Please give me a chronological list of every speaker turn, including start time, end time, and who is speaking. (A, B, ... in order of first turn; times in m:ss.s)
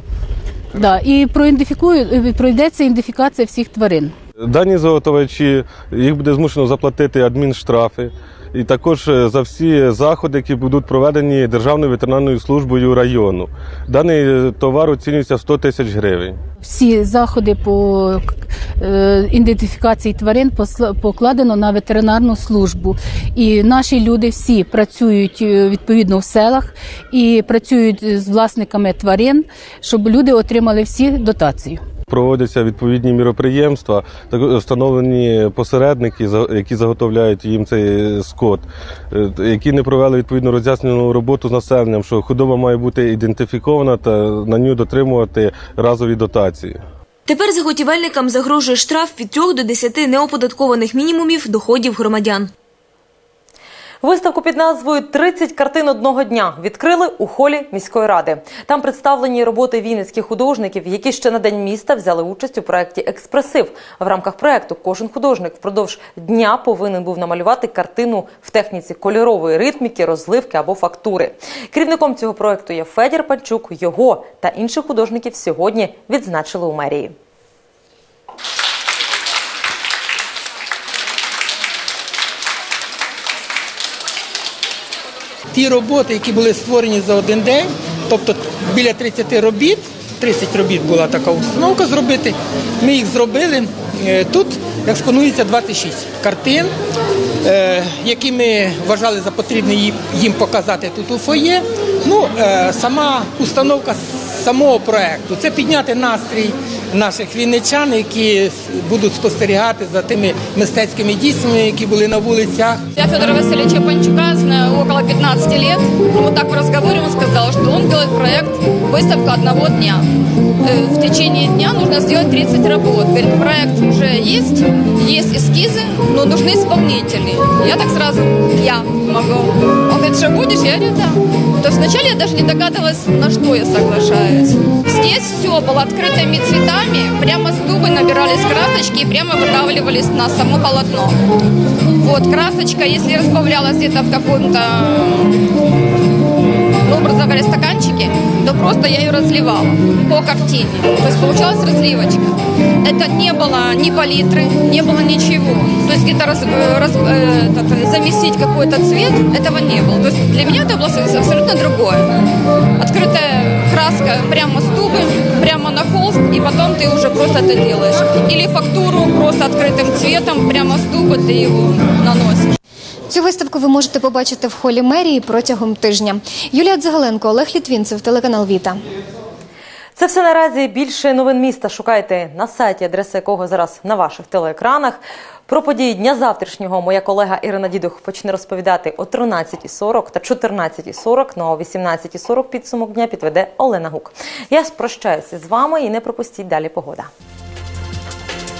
0:00.8-0:04.1 A
0:04.4-0:16.4 B
0:16.6-0:31.8 A
0:32.1-0:46.8 B
0:47.3-0:52.5 C
0:54.0-1:17.1 D
1:25.5-1:36.7 E
1:37.4-1:52.8 E
1:52.9-2:00.1 F
2:00.6-2:21.2 F
2:22.0-2:25.4 F
2:26.8-2:42.2 F
2:42.8-2:52.6 F
2:53.1-2:58.8 G
3:00.0-3:17.1 D